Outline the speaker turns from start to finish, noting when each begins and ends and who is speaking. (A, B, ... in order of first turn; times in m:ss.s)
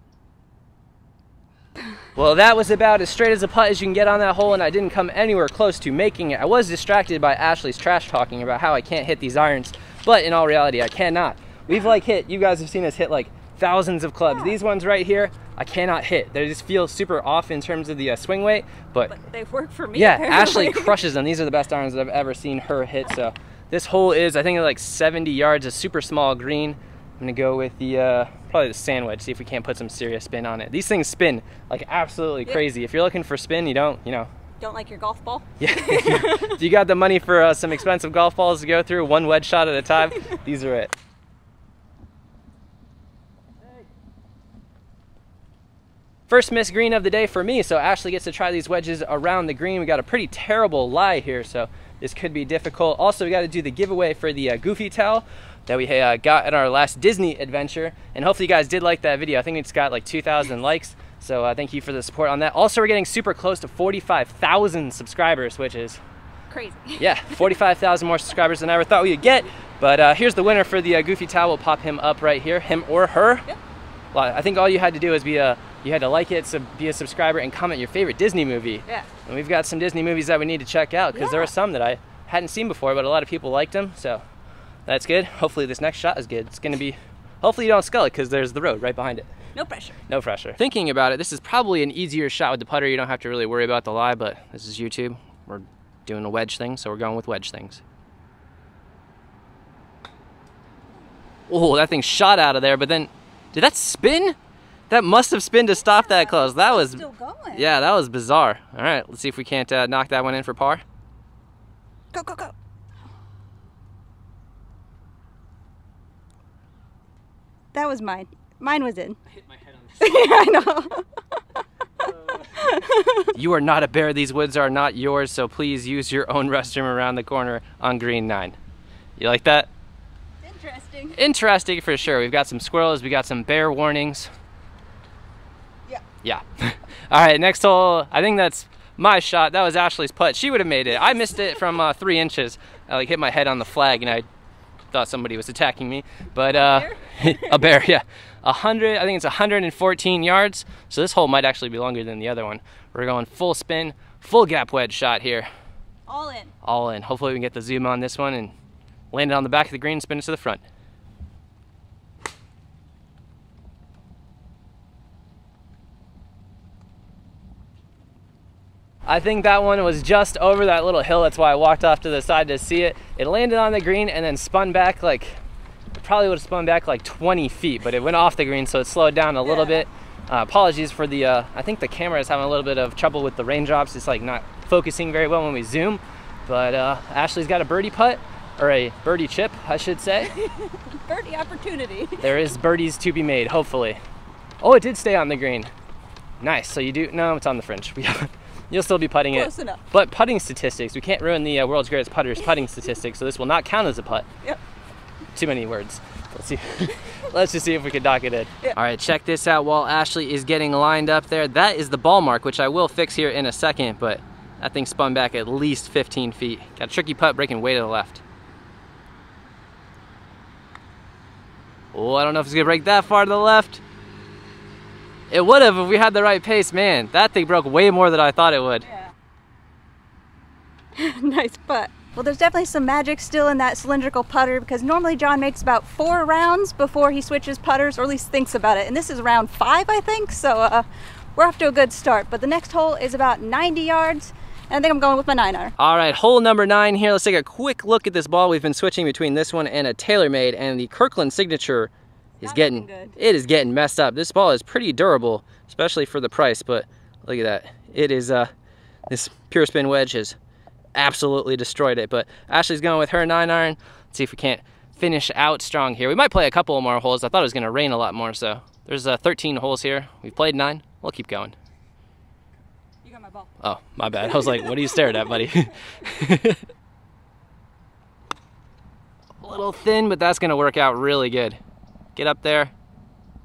0:02.2-0:19.1 A
0:14.2-0:14.6 B
0:19.1-0:21.0 B
0:19.9-0:34.3 A
0:34.6-0:36.6 B
0:35.6-0:40.9 A
0:46.3-1:06.0 A
1:06.5-1:07.1 B
1:07.0-1:13.5 A
1:14.1-1:24.2 A
1:21.1-1:21.5 B
1:24.9-1:29.3 A
1:29.5-1:30.0 B
1:30.1-1:37.8 A
1:41.5-1:44.4 A
1:44.9-1:50.8 A
1:45.8-1:47.7 B
1:52.1-1:52.5 B
1:57.7-1:59.2 B
1:59.5-2:00.1 A
2:00.0-2:01.4 B
2:02.4-2:03.3 B
2:03.3-2:08.6 A
2:09.2-2:09.7 A
2:10.4-2:11.2 B
2:11.2-2:14.3 A
2:16.2-2:24.2 A
2:24.9-2:35.5 A
2:26.5-2:27.6 B
2:36.1-2:36.5 B
2:36.6-2:38.5 A
2:39.1-2:40.6 A
2:49.0-2:55.4 A
2:56.0-3:10.3 A
2:59.4-2:59.8 B
3:10.3-3:12.3 B
3:12.2-3:14.0 A
3:14.6-3:15.7 A
3:16.4-3:24.2 A
3:19.3-3:19.8 B
3:25.3-3:38.2 A
3:41.9-3:43.8 A
3:45.3-3:48.9 A
3:51.0-4:05.7 B
4:05.8-4:18.5 A
4:12.4-4:13.2 B
4:19.1-4:20.4 A
4:20.9-4:31.5 A
4:33.0-4:33.5 B
4:33.6-4:36.6 A
4:39.4-4:41.6 A
4:42.2-4:42.7 A